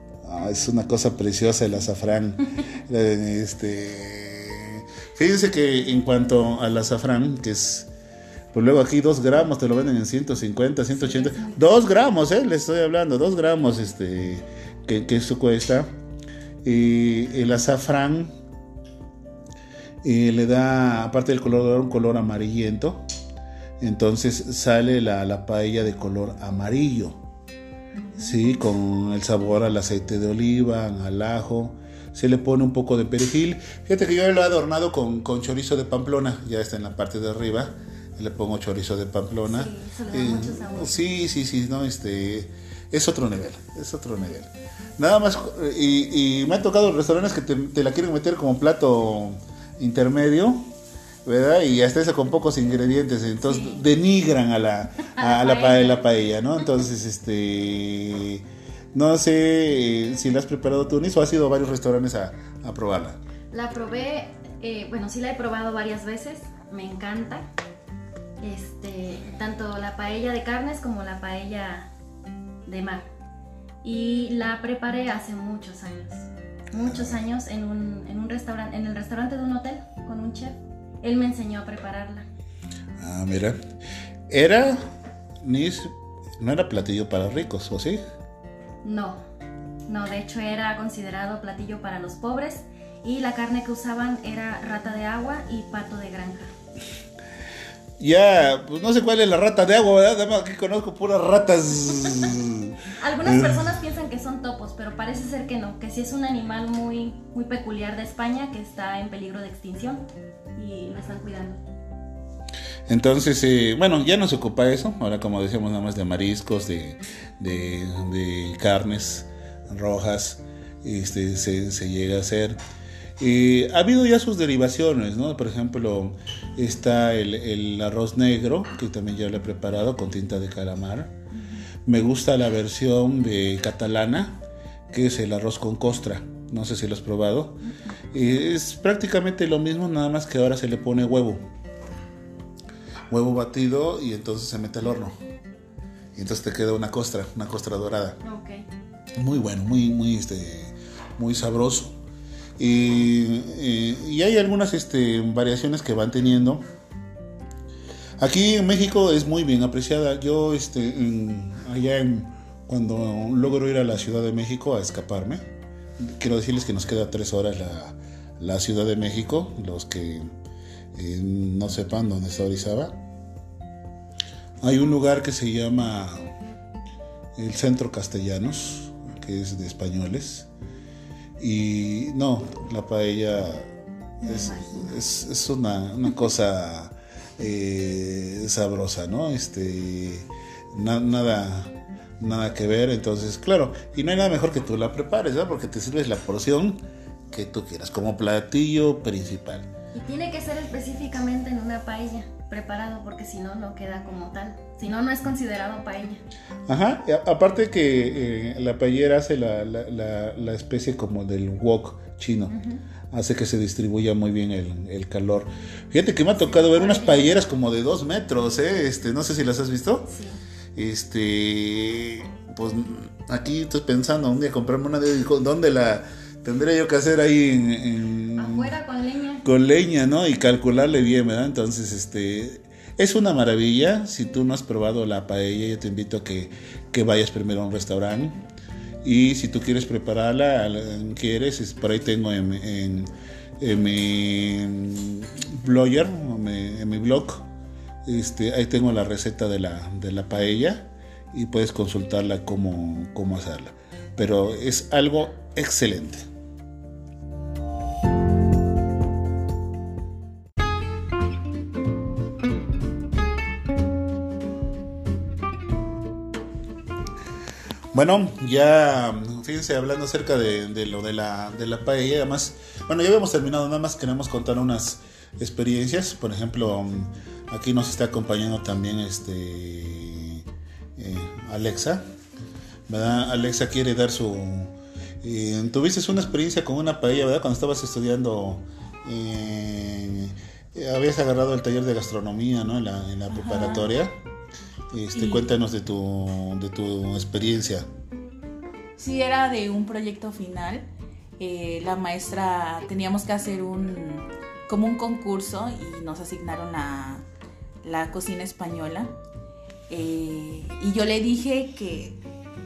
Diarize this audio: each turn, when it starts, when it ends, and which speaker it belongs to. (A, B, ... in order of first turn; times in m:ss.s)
0:00.2-0:07.9 A
0:08.5-0:15.9 A
0:10.9-0:11.9 B
0:16.6-0:18.3 A
0:20.0-0:23.0 A
0:23.8-0:27.2 A
0:28.0-0:28.4 B
0:28.2-0:50.6 A
0:39.5-0:41.0 B
0:51.2-1:03.2 A
0:53.4-0:53.8 B
0:55.1-0:56.1 B
1:03.5-1:07.4 B
1:08.4-1:11.9 B
1:12.7-1:13.1 B
1:13.8-1:22.3 B
1:16.8-1:17.2 A
1:23.0-1:23.6 A
1:24.3-1:24.8 A
1:25.4-1:28.0 A
1:28.8-1:29.2 B
1:29.9-1:36.5 B
1:38.0-1:43.6 A
1:43.0-1:50.0 B
1:50.6-1:51.6 B
1:52.9-2:02.6 A
2:03.2-2:11.1 A
2:11.8-2:14.4 A
2:14.9-2:17.6 A
2:18.1-2:21.4 A
2:23.1-2:25.2 A
2:26.2-2:28.2 A
2:28.2-2:28.6 B
2:29.2-2:32.0 A
2:32.6-2:36.6 A
2:38.2-2:45.4 A
2:46.0-2:50.3 A
2:51.0-2:53.0 A
2:54.6-2:56.3 A
2:57.4-3:00.5 A
3:01.4-3:03.7 A
3:04.2-3:19.7 A
3:19.9-3:26.2 B
3:26.7-3:32.5 A
3:32.5-3:32.8 B
3:33.1-3:40.1 A
3:36.4-3:37.5 B
3:40.1-3:40.4 B
3:40.8-3:48.7 A
3:48.4-3:49.5 B
3:49.4-3:58.4 A
3:59.0-4:07.5 A
4:08.0-4:16.3 A
4:27.9-4:42.0 A
4:42.9-4:54.1 A
4:53.3-4:54.0 C
4:54.9-4:57.9 A
4:55.1-4:55.5 C
4:59.0-5:00.8 C
5:01.4-5:07.2 C
5:07.8-5:09.1 C
5:09.9-5:12.2 C